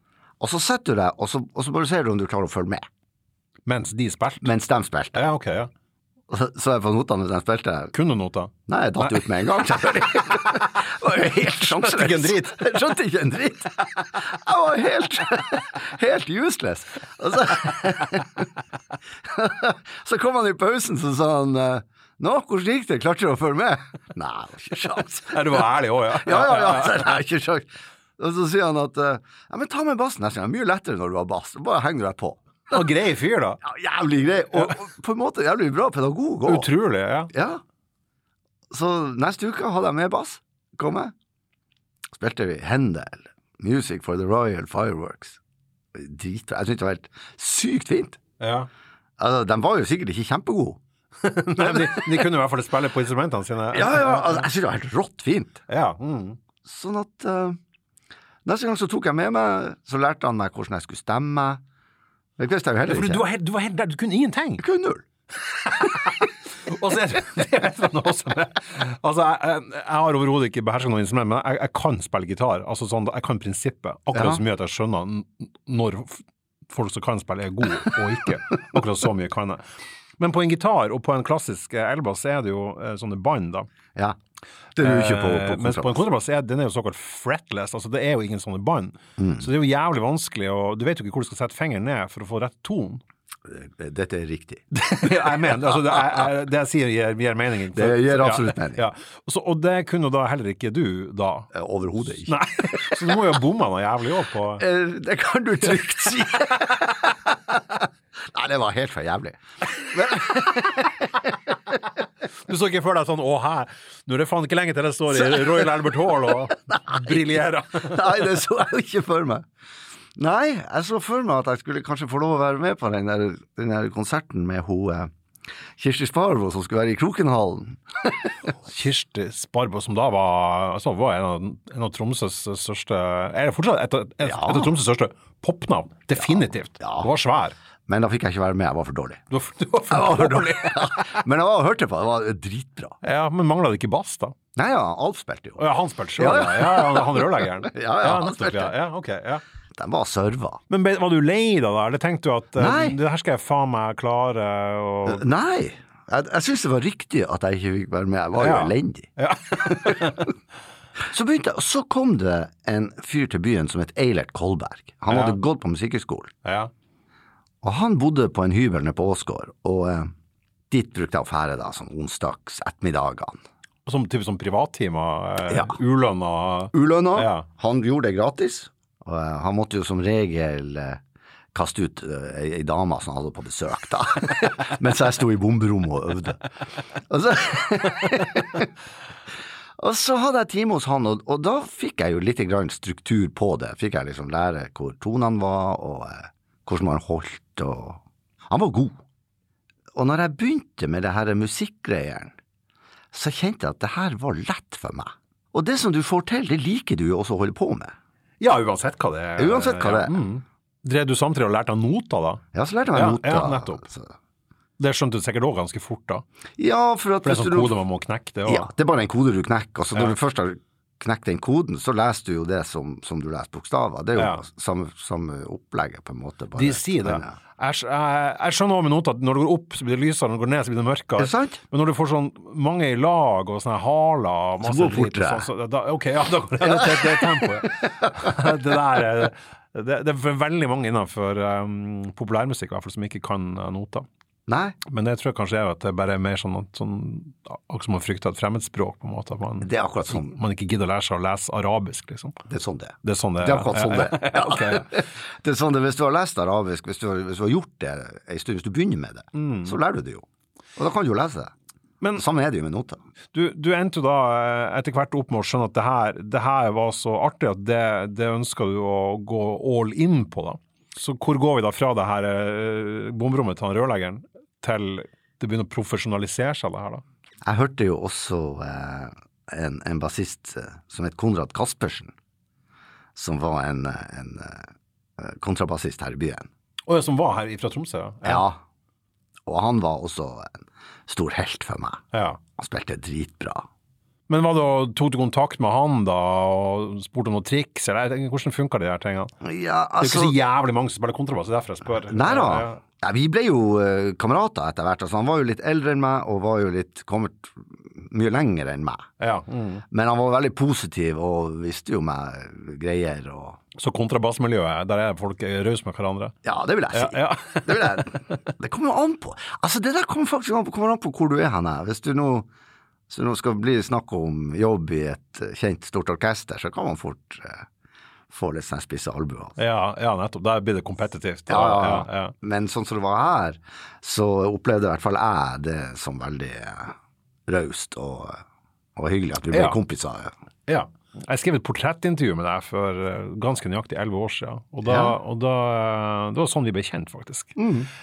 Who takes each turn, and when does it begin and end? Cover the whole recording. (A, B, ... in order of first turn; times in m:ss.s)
0:00.4-0:02.8 A
0:03.7-0:04.5 B
0:04.4-0:05.2 A
0:05.1-0:05.7 B
0:06.3-0:07.9 A
0:07.9-0:09.3 B
0:08.7-0:18.5 A
0:11.6-0:12.7 B
0:19.2-0:32.8 A
0:25.3-0:27.2 B
0:32.7-0:33.6 B
0:33.6-0:36.7 A
0:36.5-0:37.3 B
0:37.3-0:37.6 A
0:38.7-0:41.1 A
0:42.1-0:45.4 A
0:45.9-0:48.2 A
0:48.4-0:48.7 B
0:49.2-0:50.8 A
0:51.2-0:54.5 B
0:51.6-0:52.3 A
0:53.7-0:55.6 A
0:55.7-0:56.4 B
0:56.6-0:57.6 A
0:58.4-1:01.6 A
1:02.4-1:03.2 A
1:02.9-1:04.6 B
1:04.6-1:05.0 A
1:05.5-1:19.6 B
1:14.1-1:14.4 A
1:20.2-1:23.7 B
1:24.8-1:26.0 A
1:24.8-1:33.0 B
1:29.2-1:29.5 A
1:33.4-1:34.7 A
1:34.7-1:41.5 B
1:35.4-1:36.0 A
1:37.7-1:38.8 A
1:41.5-1:43.1 A
1:42.0-1:44.6 B
1:44.6-1:51.8 A
1:52.4-1:58.3 B
1:55.2-1:59.5 A
2:00.2-2:05.1 A
2:05.8-2:08.4 A
2:08.6-2:17.6 B
2:14.2-2:14.7 A
2:16.2-2:17.1 A
2:17.9-2:19.2 A
2:19.3-2:21.2 B
2:19.9-2:23.0 A
2:23.0-2:24.4 B
2:24.6-2:25.6 A
2:25.6-2:29.4 B
2:26.2-2:28.7 A
2:29.8-2:30.6 A
2:30.7-2:35.2 B
2:32.6-2:33.0 A
2:35.1-2:40.3 A
2:38.4-2:40.3 B
2:41.0-2:46.3 A
2:45.1-2:45.4 B
2:46.4-2:46.7 B
2:47.6-2:50.1 A
2:50.7-2:53.4 A
2:53.9-2:57.5 B
2:55.5-2:55.8 A
2:56.7-3:01.0 A
3:01.5-3:08.7 A
3:09.8-3:19.0 A
3:20.0-3:22.4 A
3:23.1-3:27.9 A
3:28.4-3:33.8 B
3:29.4-3:30.2 A
3:32.5-3:34.1 A
3:34.8-3:36.2 B
3:36.6-3:37.8 A
3:37.2-3:38.7 B
3:38.5-3:47.4 A
3:44.2-3:44.4 B
3:46.6-4:04.1 B
3:51.2-3:51.6 A
3:54.6-3:55.5 A
3:56.6-3:57.5 A
4:04.5-4:04.8 A
4:04.8-4:12.4 B
4:09.6-4:10.4 A
4:12.5-4:20.3 A
4:13.0-4:15.0 B
4:19.3-4:19.8 B
4:20.8-4:21.5 A
4:22.2-4:23.0 A
4:23.3-4:37.0 B
4:37.4-4:42.1 A
4:43.2-4:46.5 A
4:46.9-4:48.5 B
4:48.2-4:48.6 A
4:49.5-4:52.0 A
4:52.1-4:52.4 B
4:52.6-4:53.7 A
4:54.3-4:59.3 B
4:59.4-5:00.4 A
5:00.0-5:02.8 B
5:02.1-5:09.1 A
5:09.2-5:09.8 B
5:09.9-5:13.6 A
5:13.8-5:16.4 B
5:16.4-5:22.5 A
5:16.9-5:18.2 B
5:23.1-5:27.7 A
5:28.3-5:29.6 A
5:29.6-5:32.3 B
5:31.5-5:37.0 A
5:37.5-5:38.4 A
5:39.0-5:40.3 A
5:39.5-5:39.8 B
5:40.7-5:47.6 B
5:44.8-5:45.2 A
5:47.6-5:47.9 A